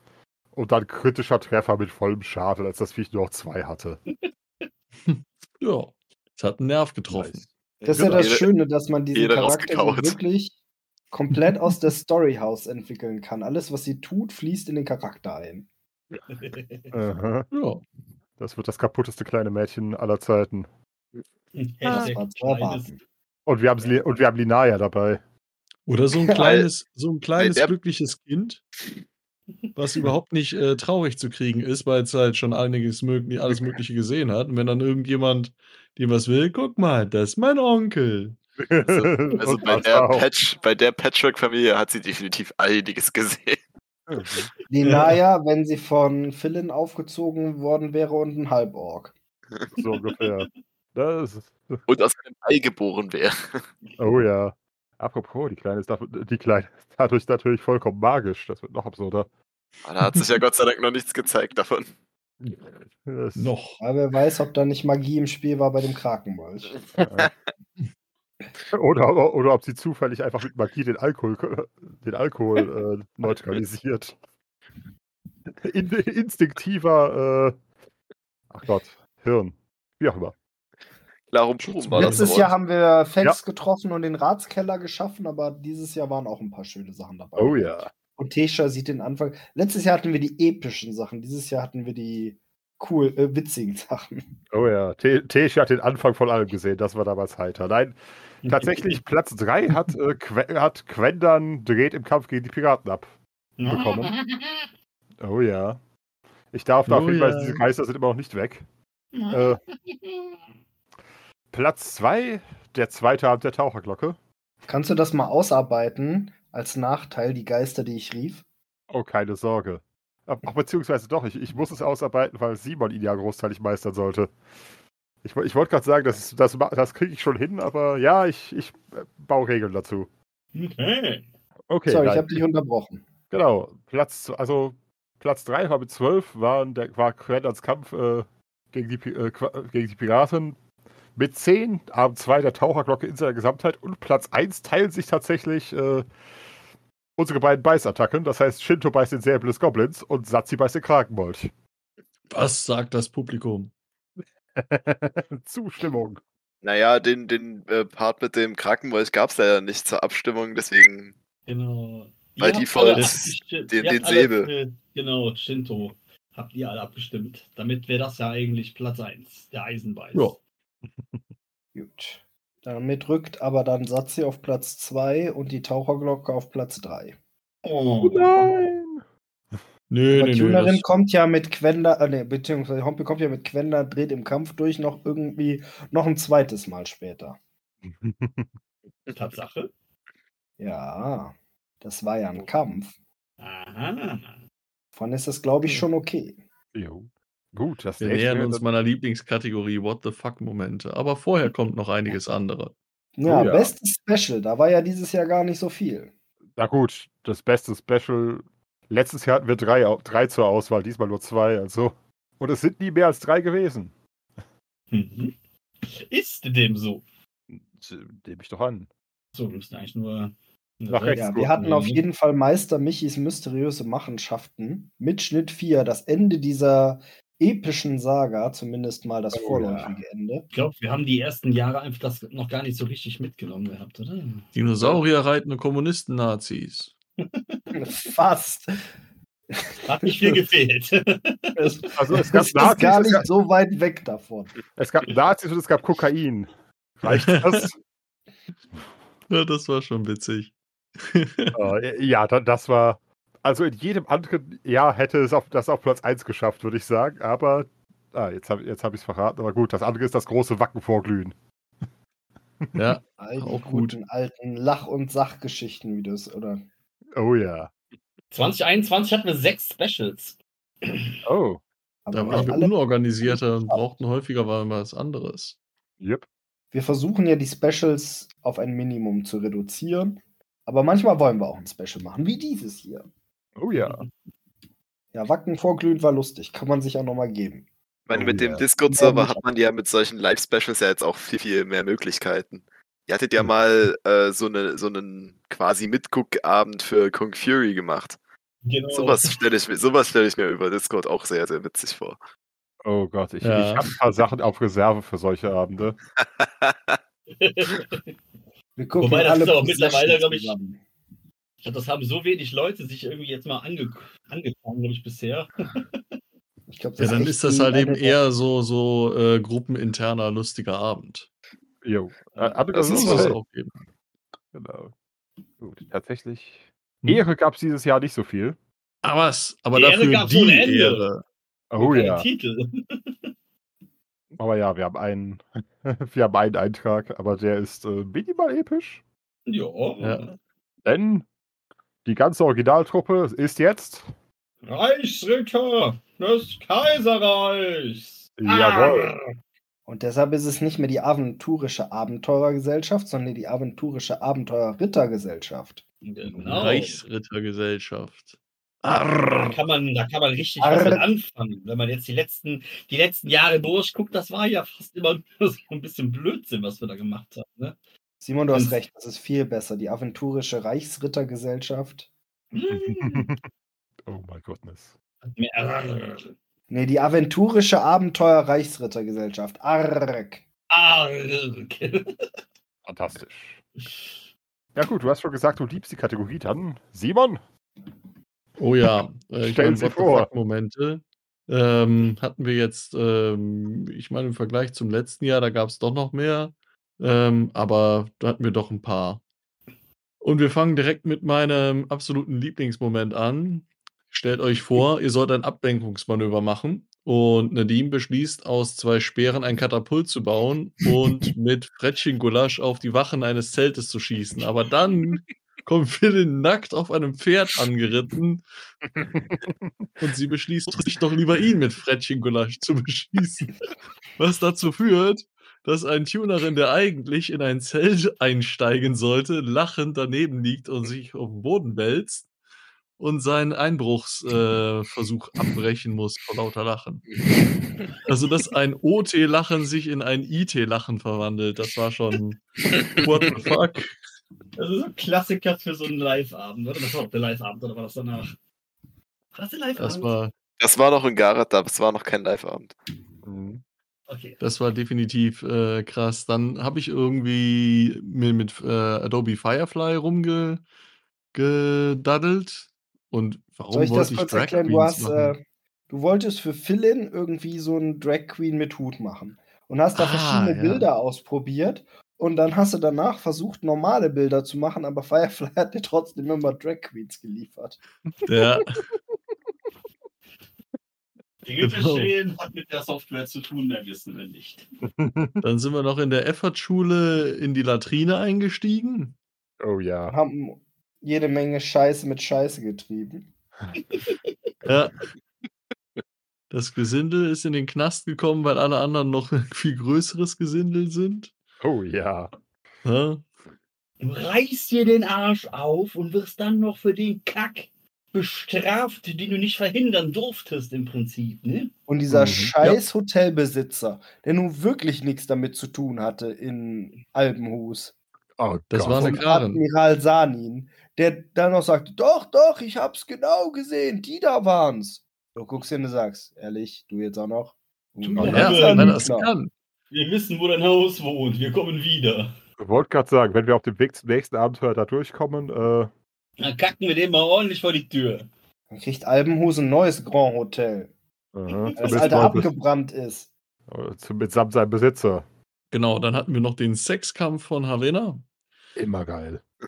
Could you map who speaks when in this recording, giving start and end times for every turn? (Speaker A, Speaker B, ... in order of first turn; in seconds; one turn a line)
Speaker A: 0.5-4.0
Speaker B: 5.6-7.4
Speaker A: 7.1-8.3
Speaker C: 7.8-10.5
Speaker D: 7.9-8.5
Speaker D: 9.1-10.2
Speaker C: 11.1-15.7
Speaker E: 16.3-16.9
Speaker A: 16.9-17.5
Speaker B: 17.5-17.8
Speaker A: 18.4-20.7
Speaker E: 21.5-22.9
Speaker C: 21.9-23.0
Speaker A: 23.4-25.2
Speaker B: 25.9-28.6
Speaker D: 26.3-26.7
Speaker D: 27.4-27.7
Speaker B: 29.8-38.4
Speaker A: 38.6-40.3
Speaker D: 38.8-43.6
Speaker A: 44.1-44.5
Speaker C: 44.7-49.1
Speaker E: 44.8-45.1
Speaker A: 49.7-51.8
Speaker D: 51.9-53.6
Speaker A: 54.0-59.3
Speaker D: 59.8-61.9
Speaker A: 62.4-63.5
Speaker B: 63.3-63.8
Speaker C: 63.8-66.8
Speaker A: 67.0-67.3
Speaker D: 67.0-67.3
Speaker A: 68.7-74.1
Speaker A: 75.6-77.5
Speaker A: 78.5-80.3
Speaker D: 81.3-82.5
Speaker A: 81.8-82.2
Speaker C: 81.9-94.3
Speaker A: 87.4-87.9
Speaker A: 94.5-103.1
Speaker E: 98.4-98.9
Speaker E: 103.6-104.7
Speaker A: 103.6-104.1
Speaker A: 105.2-105.8
Speaker A: 106.5-108.6
Speaker B: 106.8-107.6
Speaker E: 109.1-110.3
Speaker A: 109.3-109.6
Speaker A: 111.5-114.2
Speaker C: 114.7-118.4
Speaker A: 118.9-124.3
Speaker A: 125.2-130.1
Speaker E: 130.5-131.2
Speaker A: 131.7-132.4
Speaker C: 131.9-133.0
Speaker A: 133.3-140.6
Speaker A: 141.1-146.1
Speaker A: 147.2-151.5
Speaker B: 152.3-153.7
Speaker A: 154.6-156.2
Speaker D: 156.6-161.1
Speaker E: 161.5-170.4
Speaker D: 162.4-164.5
Speaker C: 171.7-177.2
Speaker E: 177.6-178.7
Speaker A: 178.0-179.0
Speaker B: 179.9-180.8
Speaker C: 180.1-187.4
Speaker A: 187.8-188.5
Speaker E: 189.1-189.7
Speaker C: 190.6-192.9
Speaker E: 193.4-194.4
Speaker C: 194.9-196.4
Speaker A: 196.7-198.7
Speaker B: 198.0-202.7
Speaker C: 203.2-206.1
Speaker A: 203.2-203.7
Speaker A: 206.6-213.9
Speaker E: 214.9-215.3
Speaker E: 215.9-217.0
Speaker A: 217.5-218.9
Speaker E: 219.3-222.0
Speaker A: 220.9-221.5
Speaker C: 221.2-230.4
Speaker A: 229.3-229.9
Speaker E: 230.5-234.5
Speaker B: 234.5-236.9
Speaker E: 237.2-237.6
Speaker C: 237.7-238.8
Speaker C: 239.5-240.4
Speaker E: 239.8-241.6
Speaker C: 241.6-244.5
Speaker A: 241.9-243.3
Speaker A: 244.8-246.5
Speaker A: 247.0-247.8
Speaker B: 247.1-247.6
Speaker B: 249.3-251.6
Speaker A: 251.5-261.3
Speaker B: 262.7-263.9
Speaker C: 263.2-266.6
Speaker A: 267.1-267.7
Speaker E: 268.3-271.1
Speaker A: 271.2-271.6
Speaker C: 272.1-273.8
Speaker B: 272.1-275.6
Speaker C: 276.7-283.1
Speaker A: 283.6-284.1
Speaker C: 285.1-287.7
Speaker D: 288.1-298.2
Speaker A: 288.1-288.6
Speaker C: 288.9-289.4
Speaker E: 298.6-299.4
Speaker D: 298.9-302.2
Speaker A: 302.8-306.0
Speaker B: 303.4-303.8
Speaker D: 306.4-306.9
Speaker E: 307.4-308.1
Speaker C: 308.8-310.8
Speaker E: 309.0-310.5
Speaker E: 311.6-316.0
Speaker C: 316.7-318.2
Speaker B: 317.0-321.3
Speaker A: 321.8-323.4
Speaker D: 322.7-323.3
Speaker B: 322.8-323.8
Speaker A: 324.5-324.9
Speaker A: 325.6-328.6
Speaker B: 329.0-331.2
Speaker E: 329.7-331.0
Speaker A: 331.7-332.2
Speaker E: 331.8-333.3
Speaker A: 334.4-339.0
Speaker E: 339.5-340.3
Speaker B: 340.0-340.3
Speaker A: 340.8-341.2
Speaker A: 342.0-344.1
Speaker E: 344.6-349.2
Speaker A: 348.4-349.1
Speaker C: 349.9-355.8
Speaker E: 356.0-357.0
Speaker B: 356.4-359.6
Speaker E: 359.4-367.8
Speaker C: 360.6-361.0
Speaker C: 368.2-372.1
Speaker E: 368.5-368.8
Speaker E: 372.5-373.3
Speaker A: 372.7-373.4
Speaker A: 374.1-374.9
Speaker E: 375.3-376.3
Speaker C: 376.7-380.4
Speaker E: 380.7-382.3
Speaker A: 382.9-383.6
Speaker A: 384.7-387.4
Speaker B: 388.6-399.2
Speaker A: 389.4-390.3
Speaker B: 400.2-418.4
Speaker A: 419.0-419.5
Speaker B: 420.0-423.5
Speaker B: 424.2-432.3
Speaker B: 433.0-437.1
Speaker B: 438.0-443.9
Speaker E: 444.6-448.3
Speaker E: 449.3-450.1
Speaker B: 449.8-450.3
Speaker D: 450.6-452.7
Speaker A: 453.2-453.6
Speaker E: 454.1-454.4
Speaker B: 454.4-460.6
Speaker B: 461.3-465.3
Speaker C: 463.7-477.8
Speaker B: 469.9-470.9
Speaker B: 478.2-478.7
Speaker E: 481.4-484.6
Speaker B: 481.6-482.1
Speaker A: 484.8-485.4
Speaker B: 485.4-489.1
Speaker A: 489.6-490.1
Speaker C: 490.1-493.3
Speaker B: 494.6-495.0
Speaker B: 496.5-501.3
Speaker A: 501.6-502.3
Speaker B: 502.8-503.2
Speaker E: 504.0-511.7
Speaker C: 511.9-517.9
Speaker A: 512.1-512.5
Speaker A: 518.4-519.2
Speaker B: 518.7-519.6
Speaker C: 518.9-529.3
Speaker A: 528.1-528.5
Speaker B: 528.2-529.5
Speaker E: 528.3-529.0
Speaker E: 529.9-532.3
Speaker A: 532.6-535.9
Speaker E: 536.4-538.3
Speaker C: 538.7-540.9
Speaker A: 541.3-542.5
Speaker E: 541.5-542.2
Speaker C: 541.8-543.3
Speaker A: 543.7-545.2
Speaker B: 545.7-548.2
Speaker A: 548.8-549.4